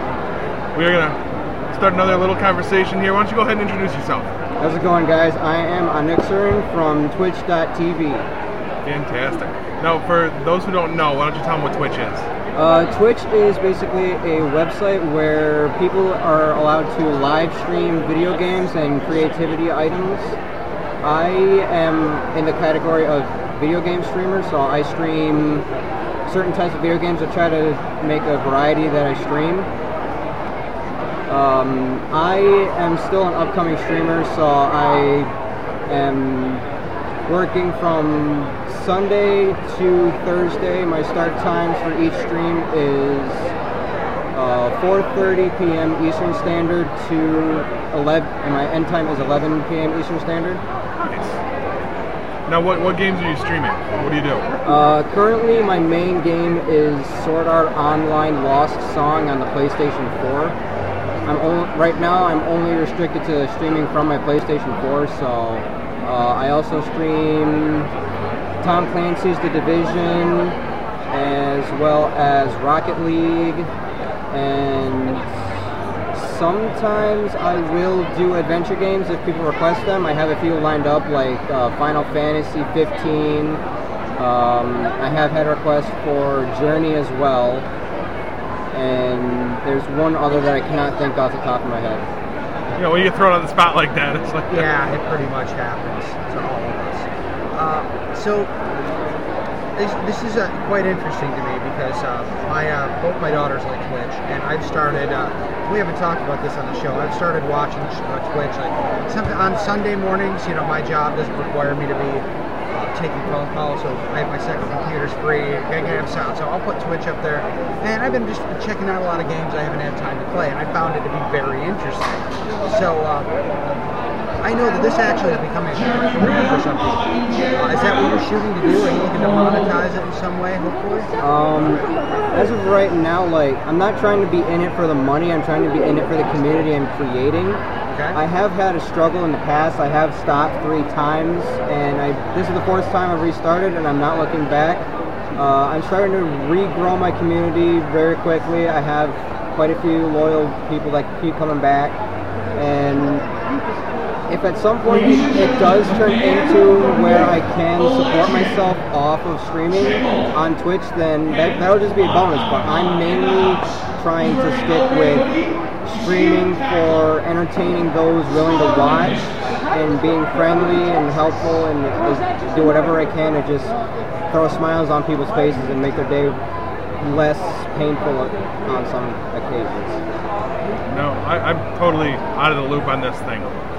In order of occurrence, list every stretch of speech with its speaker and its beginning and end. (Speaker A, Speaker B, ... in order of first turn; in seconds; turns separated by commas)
Speaker A: 0.7-1.2, Speaker A: 1.7-4.3, Speaker B: 4.6-8.3, Speaker A: 8.8-12.3, Speaker B: 12.5-20.4, Speaker B: 21.0-25.6, Speaker B: 26.2-29.7, Speaker B: 31.3-35.3, Speaker B: 35.9-36.6, Speaker B: 37.3-43.5, Speaker B: 44.3-50.6, Speaker A: 51.0-51.4, Speaker A: 52.5-54.5, Speaker B: 54.6-60.5, Speaker B: 61.2-67.9, Speaker B: 68.6-70.6, Speaker B: 71.1-73.7, Speaker B: 74.3-75.3, Speaker B: 76.1-83.6, Speaker B: 84.2-87.7, Speaker B: 88.7-92.0, Speaker A: 92.7-94.7, Speaker C: 94.5-98.5, Speaker C: 99.8-123.3, Speaker C: 124.4-131.1, Speaker B: 131.2-137.6, Speaker C: 137.9-138.2, Speaker B: 138.1-144.8, Speaker B: 145.3-152.0, Speaker B: 152.5-153.3, Speaker B: 154.3-165.3, Speaker B: 165.8-169.2, Speaker B: 169.7-173.7, Speaker B: 174.3-176.4, Speaker B: 177.0-180.0, Speaker A: 180.9-183.5